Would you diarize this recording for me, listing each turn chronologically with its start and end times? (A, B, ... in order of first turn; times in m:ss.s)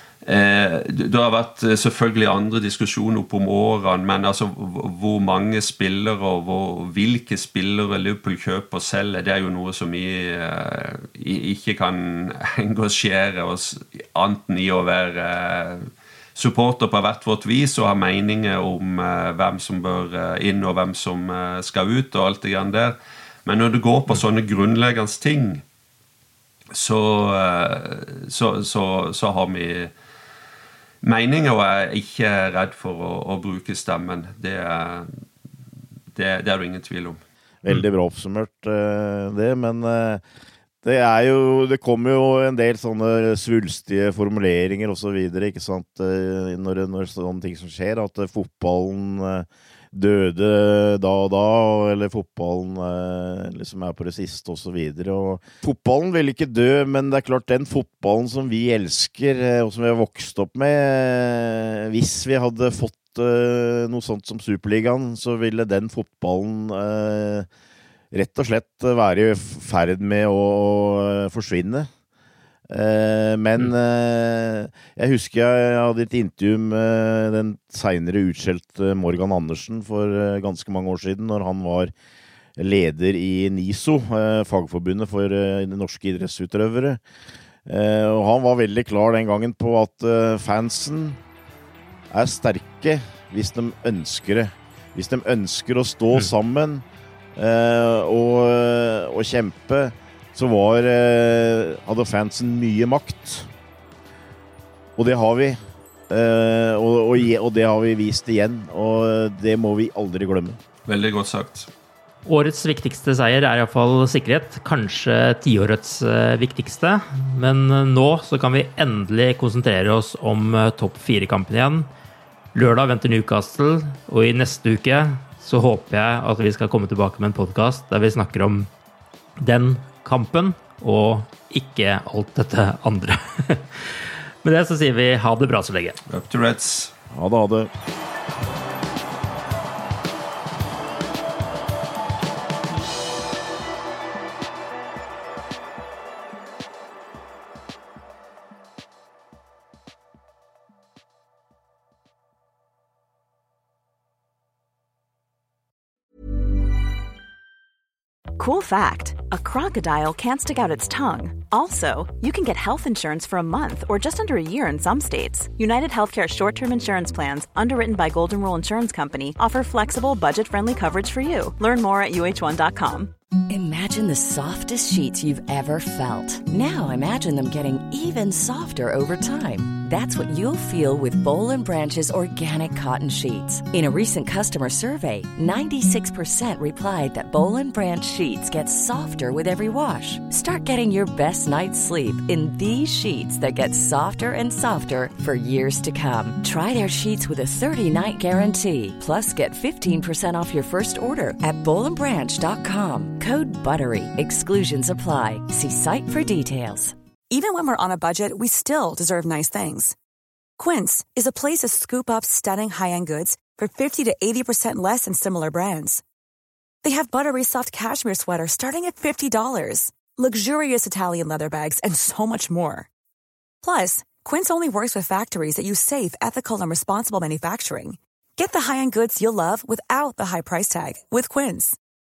0:00.2-0:25.6 A
0:26.7-0:29.9 A
0:31.0-0:35.2 A
0:36.1-0:37.2 A
0:37.6-0:40.2 B
0:40.8-1:07.5 B
1:08.1-1:11.9 B
1:12.7-1:21.9 B
1:22.6-1:27.0 B
1:27.7-1:31.2 B
1:32.1-1:36.8 B
1:37.4-1:43.5 B
1:45.0-1:45.6 B
1:46.1-1:50.6 B
1:50.9-1:51.7 A
1:52.3-2:01.9 C
2:02.5-2:08.7 C
2:09.4-2:16.0 C
2:16.1-2:16.9 A
2:17.1-2:17.7 B
2:38.4-2:53.1 D
2:53.5-3:27.0 E
3:27.3-3:30.0 D
3:30.6-3:36.0 D
3:36.8-3:42.9 D
3:43.6-3:51.8 D